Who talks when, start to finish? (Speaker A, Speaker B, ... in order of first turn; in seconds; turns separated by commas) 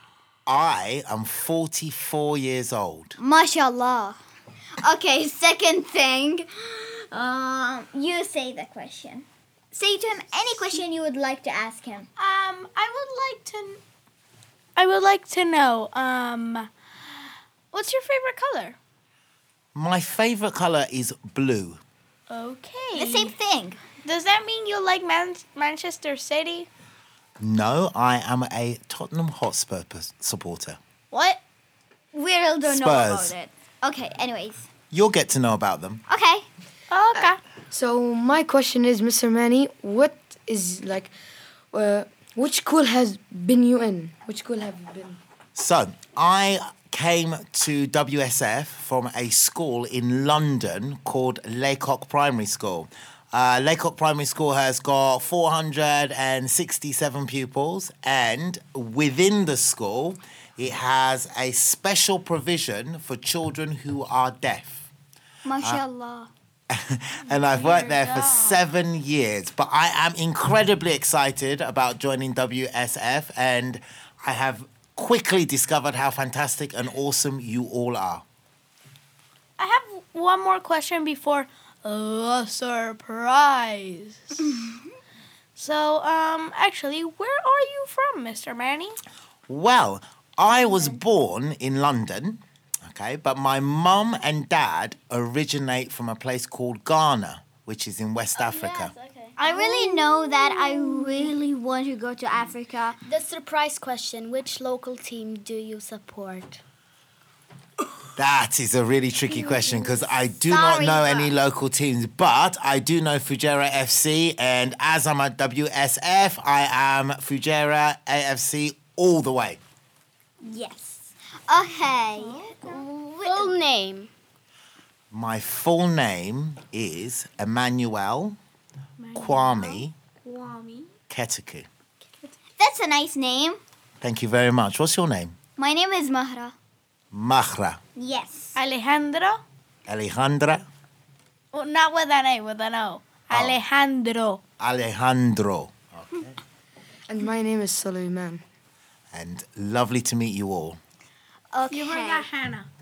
Speaker A: 0.5-3.2, Speaker B: 3.2-4.2, Speaker B: 4.8-12.1, Speaker C: 12.2-13.8, Speaker C: 14.8-16.7, Speaker C: 17.7-18.8, Speaker A: 19.7-21.8, Speaker C: 22.3-23.3, Speaker B: 22.9-23.8, Speaker C: 24.0-26.7, Speaker A: 27.4-30.8, Speaker B: 32.1-34.7, Speaker A: 32.6-33.3, Speaker A: 34.9-36.0, Speaker B: 36.1-36.5, Speaker C: 36.9-37.4, Speaker D: 37.7-41.1, Speaker D: 41.7-45.2, Speaker A: 45.5-64.9, Speaker B: 65.4-66.3, Speaker A: 66.7-78.2, Speaker C: 67.3-68.6, Speaker C: 79.6-84.4, Speaker B: 84.4-84.8, Speaker C: 85.5-89.0, Speaker A: 89.5-98.9, Speaker B: 90.5-91.0, Speaker E: 98.3-101.3, Speaker B: 99.4-103.0, Speaker C: 99.5-99.8, Speaker E: 103.0-106.6, Speaker A: 108.2-119.6, Speaker B: 109.3-109.7, Speaker B: 110.4-111.3, Speaker B: 120.4-123.5, Speaker C: 122.2-122.8, Speaker E: 123.2-124.1, Speaker A: 125.1-128.4, Speaker C: 129.0-130.9, Speaker A: 129.1-129.9, Speaker A: 131.1-131.7, Speaker B: 132.6-133.6, Speaker A: 134.0-135.3, Speaker B: 135.6-136.5, Speaker A: 137.1-137.8, Speaker B: 137.9-138.6, Speaker C: 138.5-139.4, Speaker A: 139.9-140.7, Speaker C: 141.5-144.4, Speaker A: 143.3-143.6, Speaker A: 144.6-146.4, Speaker D: 147.1-148.4, Speaker A: 149.1-150.8, Speaker B: 151.5-152.3, Speaker C: 151.7-152.7